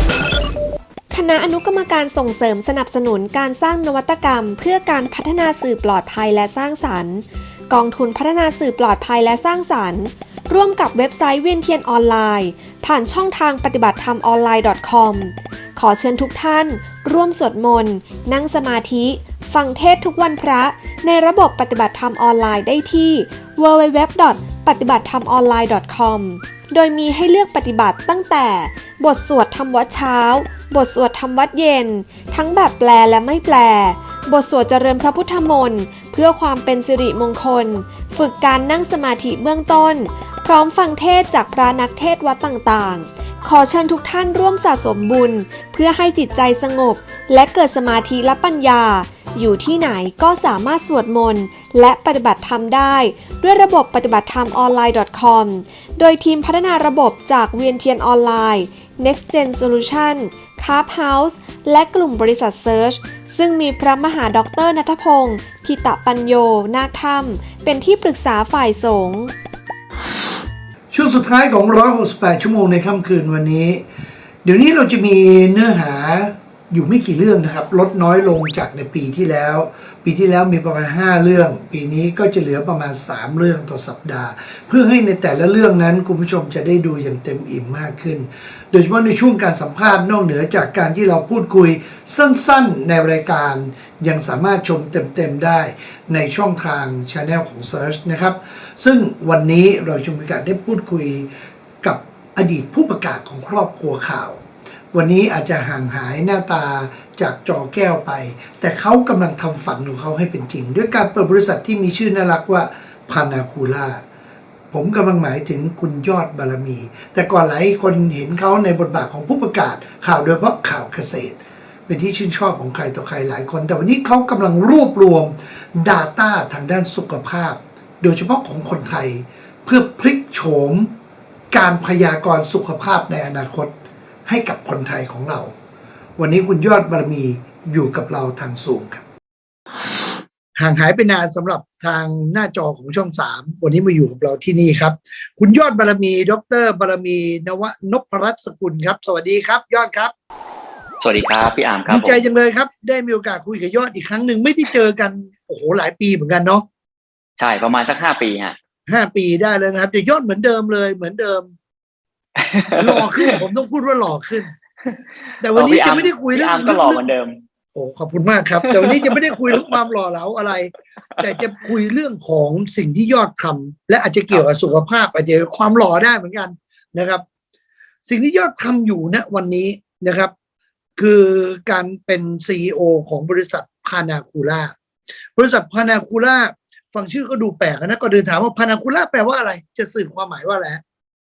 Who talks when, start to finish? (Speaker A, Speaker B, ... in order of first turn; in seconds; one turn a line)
Speaker A: 1.1-69.3
Speaker B: 70.9-73.8
Speaker B: 74.4-101.3
Speaker B: 101.8-104.4
Speaker B: 104.9-114.0
Speaker B: 114.7-130.9
Speaker B: 131.5-133.7
Speaker B: 134.2-135.5
Speaker B: 136.2-139.0
Speaker B: 140.6-150.1
Speaker C: 151.0-152.2
Speaker B: 151.9-156.6
Speaker C: 157.4-158.6
Speaker B: 158.9-161.5
Speaker C: 162.4-163.4
Speaker B: 162.8-164.5
Speaker B: 165.4-167.1
Speaker C: 165.5-167.4
Speaker B: 167.7-177.2
Speaker C: 168.7-169.6
Speaker B: 178.0-180.3
Speaker B: 180.9-184.7
Speaker B: 185.3-190.8